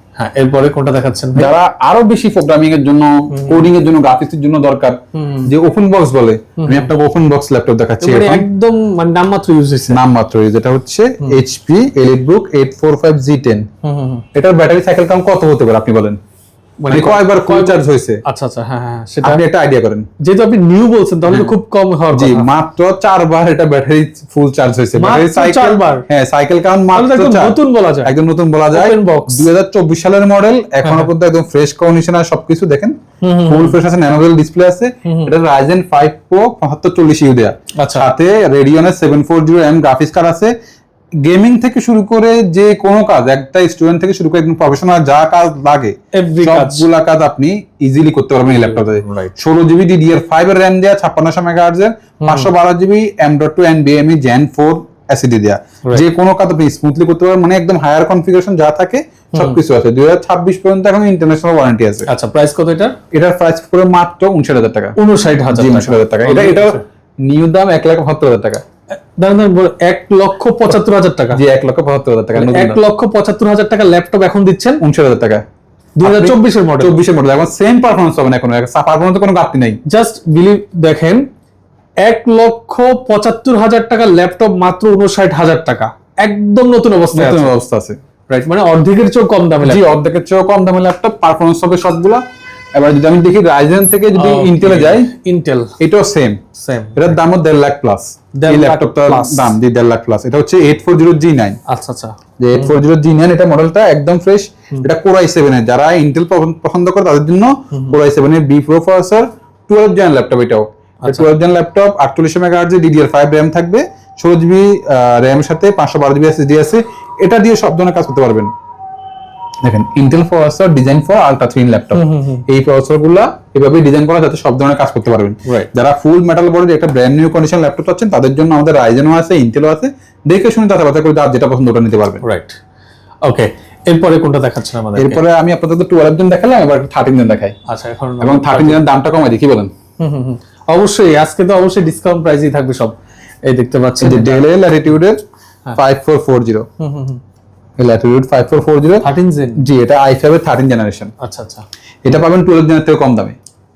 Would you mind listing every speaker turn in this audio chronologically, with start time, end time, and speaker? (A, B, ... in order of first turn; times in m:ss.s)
0:00.2-0:01.5 A
0:01.3-0:08.5 B
0:03.3-0:03.6 A
0:05.1-0:05.5 A
0:06.6-0:06.9 A
0:08.0-0:10.0 A
0:09.9-0:13.7 B
0:13.8-0:14.2 A
0:14.3-0:16.2 B
0:16.8-0:19.4 A
0:16.9-0:18.2 B
0:19.2-0:20.1 B
0:20.2-0:22.5 A
0:22.1-0:40.5 B
0:25.0-0:26.0 A
0:26.9-0:28.1 A
0:28.7-0:29.5 A
0:30.8-0:31.1 A
0:33.2-0:33.8 A
0:35.0-0:35.3 A
0:37.8-0:38.1 A
0:41.2-1:02.1 B
0:46.1-0:46.9 A
0:48.5-0:49.4 A
0:52.2-0:52.5 A
0:59.3-0:59.6 A
1:02.0-1:03.0 A
1:03.1-1:05.0 B
1:05.0-1:06.8 A
1:05.5-1:08.6 B
1:09.1-1:11.4 A
1:11.3-1:12.8 B
1:12.3-1:14.8 A
1:14.8-1:15.4 B
1:16.0-1:17.0 A
1:16.0-1:19.8 B
1:19.8-1:21.3 A
1:22.0-1:27.5 A
1:27.1-1:28.0 B
1:28.3-1:30.0 A
1:29.6-1:32.2 B
1:32.7-1:35.1 B
1:34.1-1:35.8 A
1:35.8-1:36.4 B
1:36.5-1:37.1 A
1:36.9-1:41.6 B
1:38.4-1:39.5 A
1:41.7-1:42.7 A
1:42.4-1:58.5 B
1:47.7-1:48.0 A
1:51.0-1:51.3 A
1:59.6-2:12.2 B
2:01.9-2:02.4 A
2:12.2-2:12.6 A
2:13.2-2:15.2 A
2:14.9-2:17.6 B
2:17.7-2:18.8 A
2:18.2-2:19.7 B
2:20.0-2:24.5 A
2:24.0-2:25.2 B
2:25.8-2:26.7 B
2:26.8-2:27.2 A
2:27.8-2:29.0 B
2:29.0-2:29.6 A
2:29.6-2:31.1 B
2:31.2-2:31.6 A
2:32.0-2:33.4 B